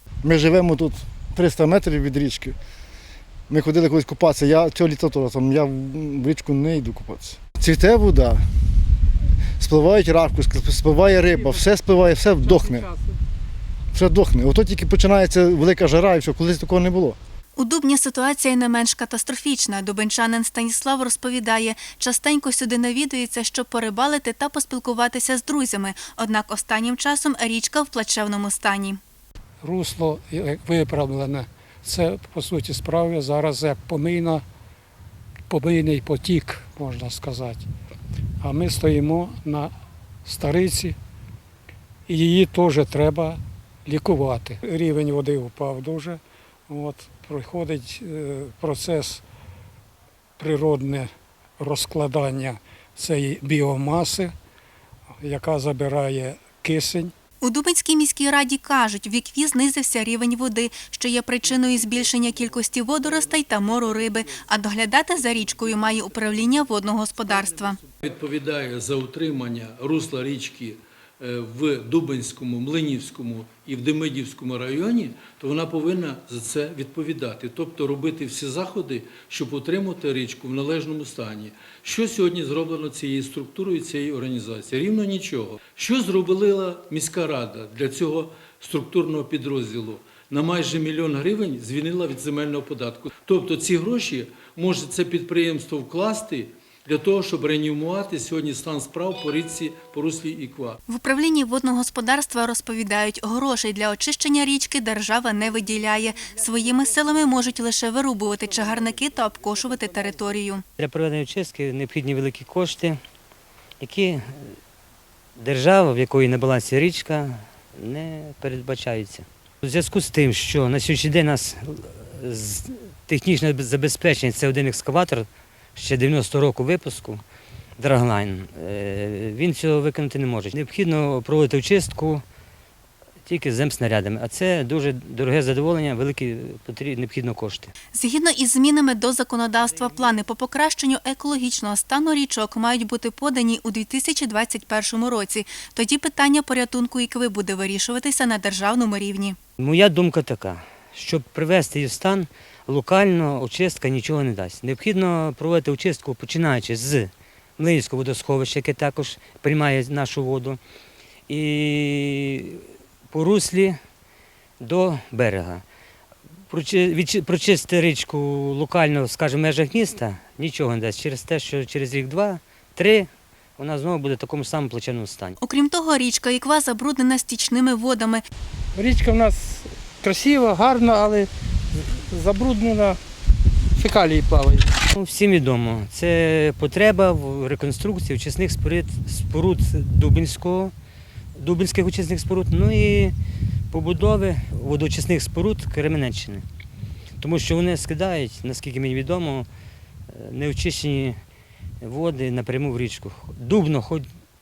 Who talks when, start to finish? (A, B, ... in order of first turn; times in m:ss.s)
0:00.2-0:02.6 A
0:03.5-0:08.4 A
0:09.6-0:12.9 A
0:11.1-0:11.7 B
0:12.4-0:13.2 B
0:13.9-0:17.2 A
0:17.6-0:29.0 C
0:29.6-0:34.4 D
0:35.5-0:37.7 D
0:38.4-0:39.7 D
0:40.2-0:41.0 D
0:42.1-0:49.2 D
0:50.4-0:54.3 D
0:55.2-0:57.1 D
0:57.4-1:07.8 C
1:01.6-1:04.3 E
1:05.1-1:40.8 E
1:40.9-1:50.6 C
1:50.8-1:53.0 F
1:53.8-1:54.5 F
1:55.4-2:07.2 F
2:07.8-2:12.2 F
2:13.2-2:17.7 F
2:17.9-2:29.4 C
2:29.6-2:40.6 F
2:41.3-2:43.8 F
2:44.6-2:45.6 F
2:46.5-2:55.4 F
2:55.4-2:58.2 C
2:58.8-3:03.0 B
3:03.8-3:04.7 B
3:04.9-3:10.7 F
3:11.4-3:13.2 F
3:13.7-3:16.4 F
3:17.2-3:19.5 F
3:20.1-3:21.2 F
3:21.8-3:24.1 F